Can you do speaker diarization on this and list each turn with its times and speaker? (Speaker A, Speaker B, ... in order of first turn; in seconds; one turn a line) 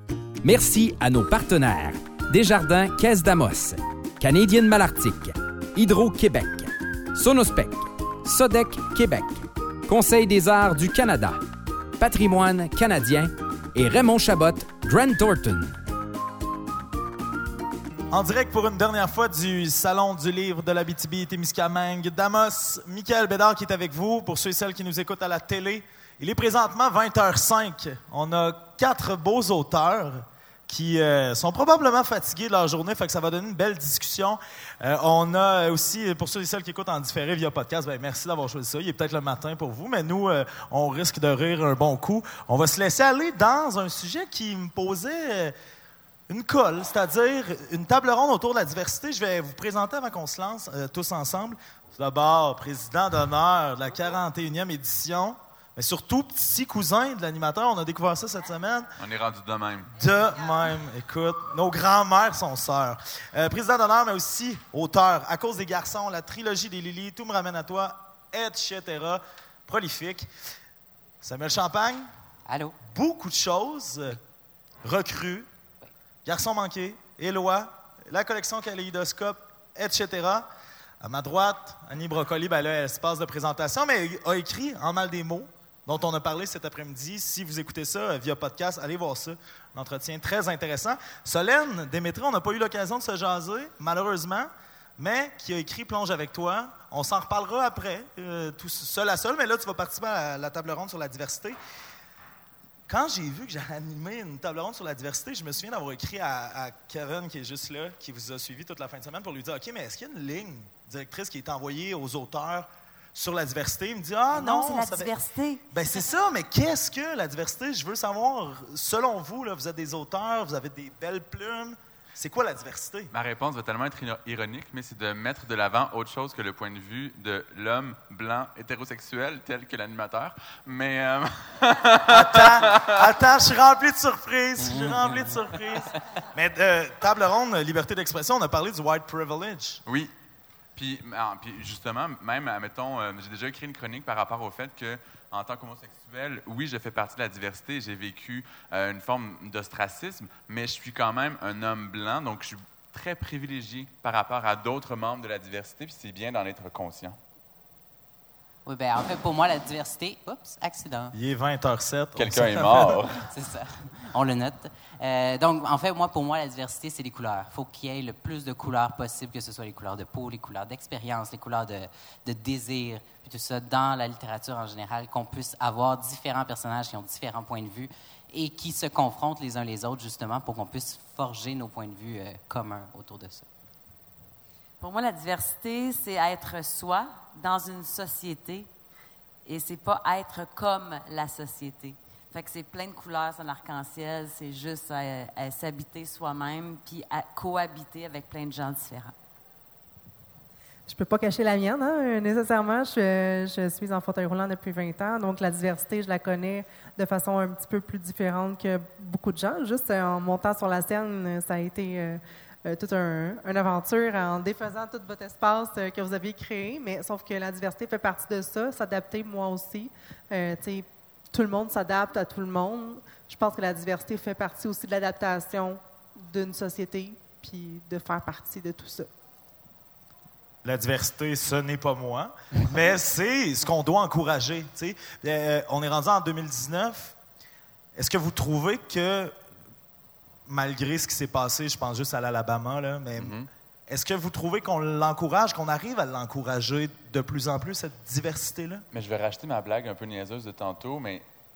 Speaker A: 0.4-11.4
Speaker A: 12.0-15.8
Speaker B: 18.1-45.5
Speaker B: 46.3-58.9
Speaker C: 59.0-59.9
Speaker B: 59.9-70.3
Speaker B: 71.2-72.1
Speaker D: 72.5-72.8
Speaker B: 72.8-74.2
Speaker B: 74.8-75.5
Speaker B: 76.2-80.5
Speaker B: 81.0-101.6
Speaker B: 102.9-115.1
Speaker E: 114.3-115.6
Speaker B: 115.7-123.1
Speaker C: 123.1-133.1
Speaker B: 132.1-139.8
Speaker D: 134.6-135.3
Speaker C: 139.8-140.1
Speaker C: 140.8-157.2
Speaker D: 158.7-161.1
Speaker B: 161.1-163.0
Speaker C: 162.2-163.2
Speaker D: 163.3-183.4
Speaker E: 184.8-188.7
Speaker E: 189.4-199.1
Speaker F: 200.9-229.1
Speaker B: 230.6-237.2
Speaker B: 237.9-239.3
Speaker B: 240.5-243.3
Speaker C: 243.2-243.5
Speaker B: 243.9-248.8
Speaker C: 248.9-251.2